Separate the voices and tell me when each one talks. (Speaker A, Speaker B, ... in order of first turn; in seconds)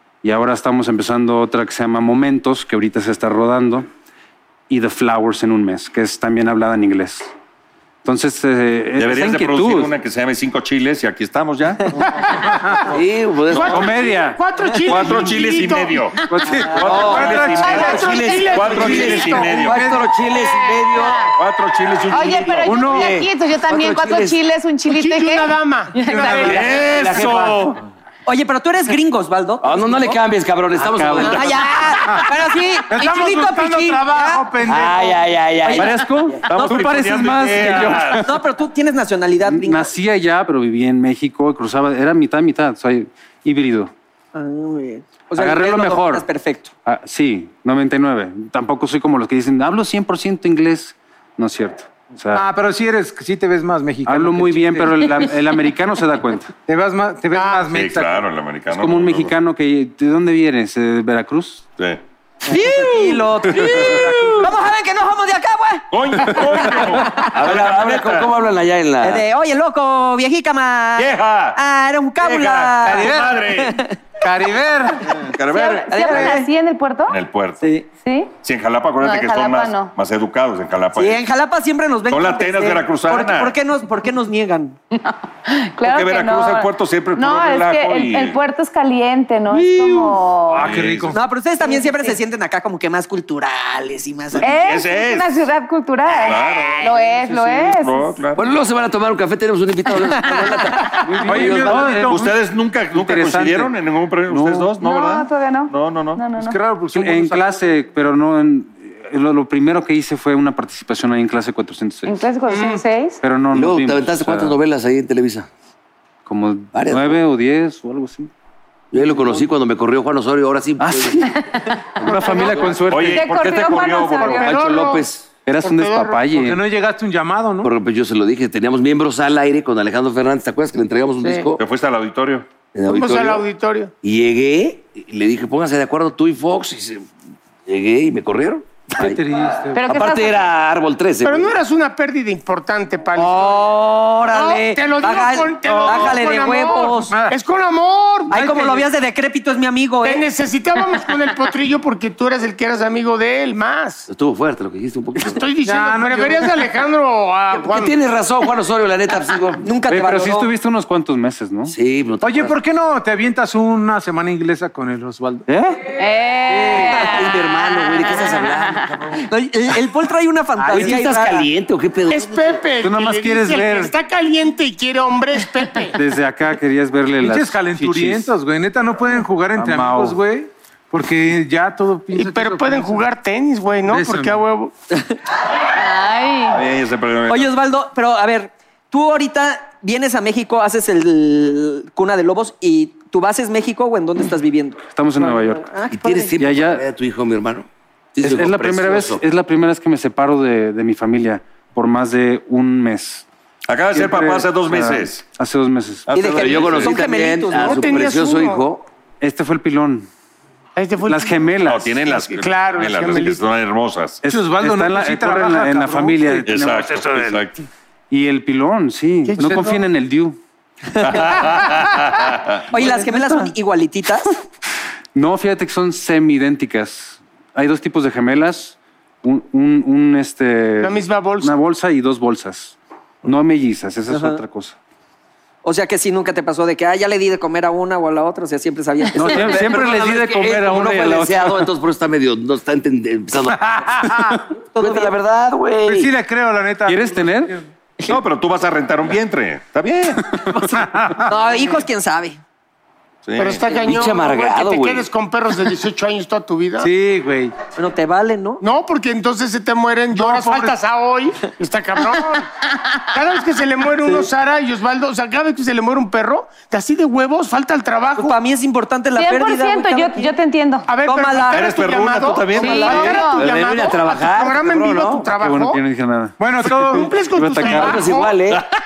Speaker A: 0.2-3.9, 4.7-7.3, 8.0-9.9, 13.7-14.4, 16.3-16.7, 30.8-31.3, 35.7-38.3, 39.5-43.9, 45.3-46.2, 46.9-52.4, 54.0-56.5, 58.7-61.7, 101.0-102.3, 102.9-103.7, 104.3-104.7, 106.9-112.1, 113.2-114.6, 116.2-118.3, 120.8-121.2, 122.0-123.3, 125.4-126.6, 159.9-161.7, 165.5-165.8, 172.8-173.9, 175.9-178.3, 179.5-180.2, 194.9-195.7, 196.4-196.8, 198.2-203.2, 203.9-206.9, 209.2-210.1, 211.1-211.9, 214.2-217.4, 218.1-220.4, 222.7-223.5, 225.1-234.8, 239.1-241.7, 246.8-247.6, 250.3-250.8, 275.3-278.0
Speaker B: 9.0-11.9, 14.9-19.9, 21.3-23.1, 26.4-27.8, 31.3-31.5, 36.5-38.2, 57.7-59.3, 65.9-68.3, 71.0-71.6, 72.2-73.8, 75.1-76.2, 77.1-77.6, 78.4-81.2, 82.1-83.5, 85.8-88.4, 90.5-91.1, 94.4-95.5, 96.1-98.4, 102.0-106.2, 122.9-124.5, 131.6-132.5, 186.5-187.5, 203.7-205.2, 211.7-214.2, 216.4-217.6, 221.0-222.6, 248.1-250.2, 253.2-253.6, 271.5-273.2
Speaker C: 12.4-12.8, 16.4-20.2, 22.6-23.3, 26.0-26.8, 32.9-35.2, 52.3-55.1, 56.6-58.1, 72.8-73.4, 74.2-75.0, 89.5-91.2, 101.2-102.3, 106.3-107.6, 126.3-127.7, 138.9-139.9, 145.7-146.2, 147.1-147.4, 148.3-148.8, 155.6-156.5, 162.2-165.5, 166.5-167.0, 170.6-171.1, 177.2-183.1, 183.9-184.4, 214.2-217.1, 219.3-219.8, 243.5-244.3, 245.8-247.6, 250.9-251.3, 256.8-257.5, 260.1-260.8, 276.4-277.1
Speaker D: 12.9-14.1, 16.8-21.3, 23.7-24.4, 26.5-27.6, 29.6-31.5, 34.6-36.1, 67.3-69.2, 98.3-102.0, 113.4-115.5, 116.7-117.2, 118.9-121.3, 124.4-125.3, 127.6-131.6, 132.7-133.5, 134.0-137.1, 137.7-139.2, 139.9-141.5, 154.1-155.4, 157.5-159.6, 161.7-162.6, 167.0-169.2, 170.7-172.6, 195.9-199.2, 206.2-208.8, 239.2-243.8, 244.8-246.1, 253.8-255.1, 273.2-275.3, 277.6-278.6
Speaker E: 13.5-16.1, 17.6-19.6, 24.9-26.7, 57.3-57.7, 124.2-125.1, 125.6-126.3, 132.8-133.9, 141.2-143.7, 144.3-148.4, 150.0-154.1, 155.2-157.9, 172.1-176.0, 182.1-184.7, 207.5-208.6, 210.8-213.4, 219.4-219.7, 230.8-231.6, 253.4-256.9, 258.6-262.5, 263.1-268.4, 270.9-275.8, 276.8-278.4
Speaker F: 22.1-26.6, 75.5-77.2, 78.0-78.3, 79.0-79.9, 85.0-90.7, 91.6-92.2, 94.4-98.2, 104.8-106.6, 112.0-113.2, 121.3-124.5, 139.7-140.3, 165.9-168.9, 185.7-186.6, 269.1-270.9, 272.6-273.5
Speaker G: 28.2-30.1, 31.1-34.4, 35.6-36.9, 38.1-39.9, 44.3-46.7, 62.4-65.8, 66.6-66.9, 69.0-74.0, 75.9-76.5, 77.6-77.9, 81.0-84.8, 91.1-94.5, 96.5-96.9, 143.2-147.1, 148.3-150.2, 159.6-160.5, 169.3-171.5, 187.3-196.3, 206.1-207.8, 222.7-224.3, 234.1-234.4, 235.6-239.7, 244.7-245.1, 251.2-252.4, 257.7-258.6, 268.1-270.3, 271.0-271.6, 272.6-273.2